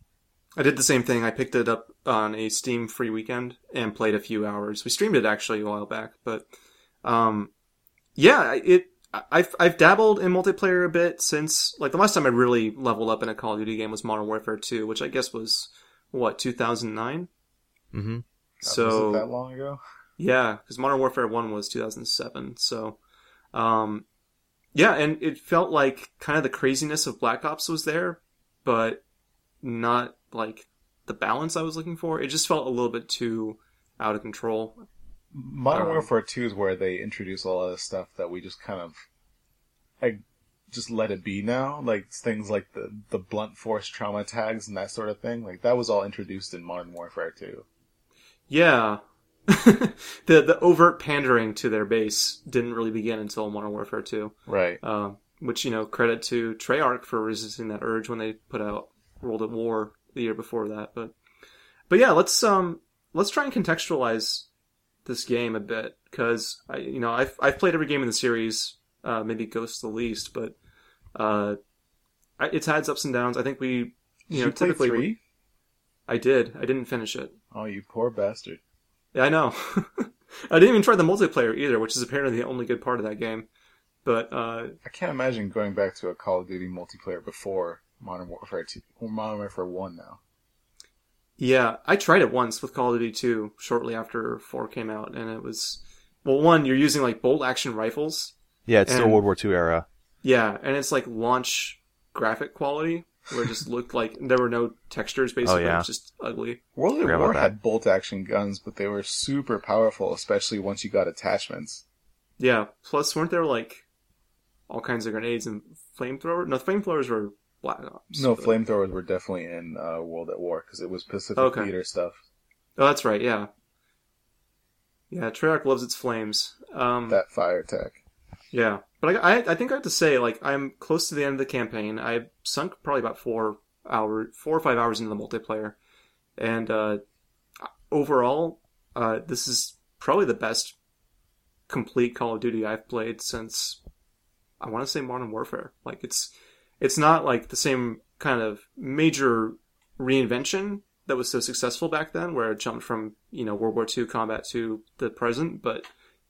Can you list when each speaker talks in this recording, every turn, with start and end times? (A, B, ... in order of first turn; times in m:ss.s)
0:00.6-0:06.4 A
0:07.0-0:07.5 A
0:08.2-0:17.3 A
0:17.9-0:18.2 B
0:18.6-0:19.8 C
0:18.6-0:19.3 A
0:20.2-0:23.0 A
0:23.5-0:24.0 A
0:24.7-0:29.0 A
0:29.6-0:34.8 A
0:35.3-0:39.0 C
0:35.7-0:36.1 A
0:40.0-0:47.6 C
0:48.5-1:01.1 A
0:54.5-0:54.8 C
1:01.9-1:04.5 A
1:05.0-1:10.6 A
1:11.1-1:11.6 A
1:12.4-1:15.1 A
1:14.3-1:15.2 C
1:16.1-1:17.3 A
1:17.5-1:18.6 C
1:19.1-1:23.5 A
1:24.0-1:24.8 A
1:24.8-1:30.2 C
1:31.4-1:38.3 A
1:38.7-1:39.8 B
1:38.9-1:39.2 A
1:40.2-1:46.6 A
1:45.4-1:45.9 B
1:46.8-1:51.8 C
1:47.0-1:47.5 B
1:52.4-1:53.8 A
1:54.7-1:58.5 A
1:58.1-2:02.2 C
2:01.4-2:01.7 A
2:02.8-2:03.5 A
2:05.1-2:07.2 A
2:07.1-2:08.0 C
2:08.5-2:15.8 A
2:16.4-2:17.0 A
2:17.6-2:20.8 A
2:21.7-2:23.8 A
2:24.6-2:35.9 A